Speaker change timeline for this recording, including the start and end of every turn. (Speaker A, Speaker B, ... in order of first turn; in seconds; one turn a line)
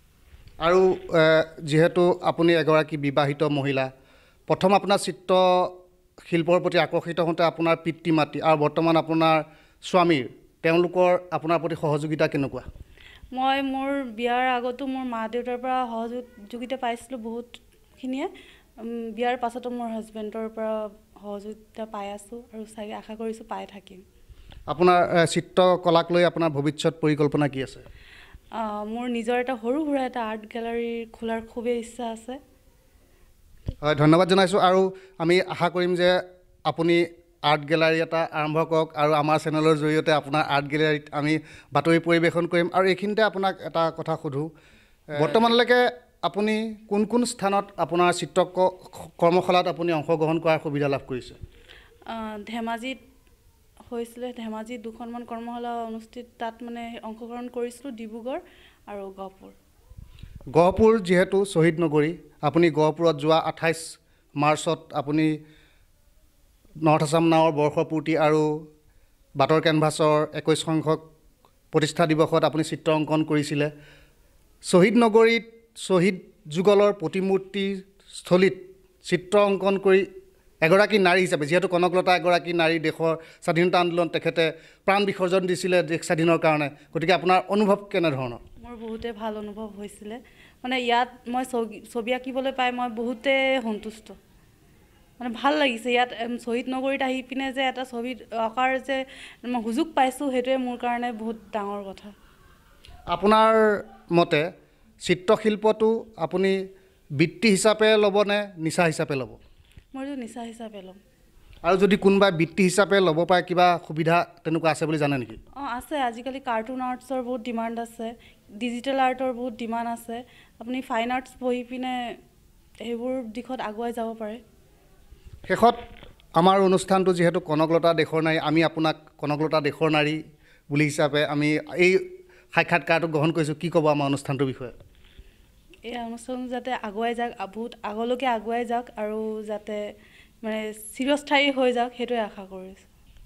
Speaker A: 0.6-3.9
Speaker A: 4.5-5.8
Speaker A: 6.3-12.7
Speaker B: 13.3-24.0
Speaker A: 24.7-27.8
Speaker B: 28.5-32.4
Speaker A: 33.8-44.5
Speaker A: 45.2-51.4
Speaker B: 52.1-53.0
Speaker B: 53.9-59.5
Speaker A: 60.5-65.3
Speaker A: 66.8-68.5
Speaker A: 69.4-71.0
Speaker A: 71.7-73.7
Speaker A: 74.7-80.1
Speaker A: 80.6-88.4
Speaker B: 88.6-94.2
Speaker B: 95.2-102.1
Speaker A: 103.1-104.5
Speaker A: 105.0-106.6
Speaker A: 107.2-109.4
Speaker B: 109.9-111.0
Speaker A: 111.6-115.4
Speaker B: 115.6-122.0
Speaker B: 122.8-124.4
Speaker A: 125.5-125.8
Speaker A: 126.4-132.0
Speaker A: 132.5-134.7
Speaker B: 135.9-139.8
Speaker B: 140.4-142.8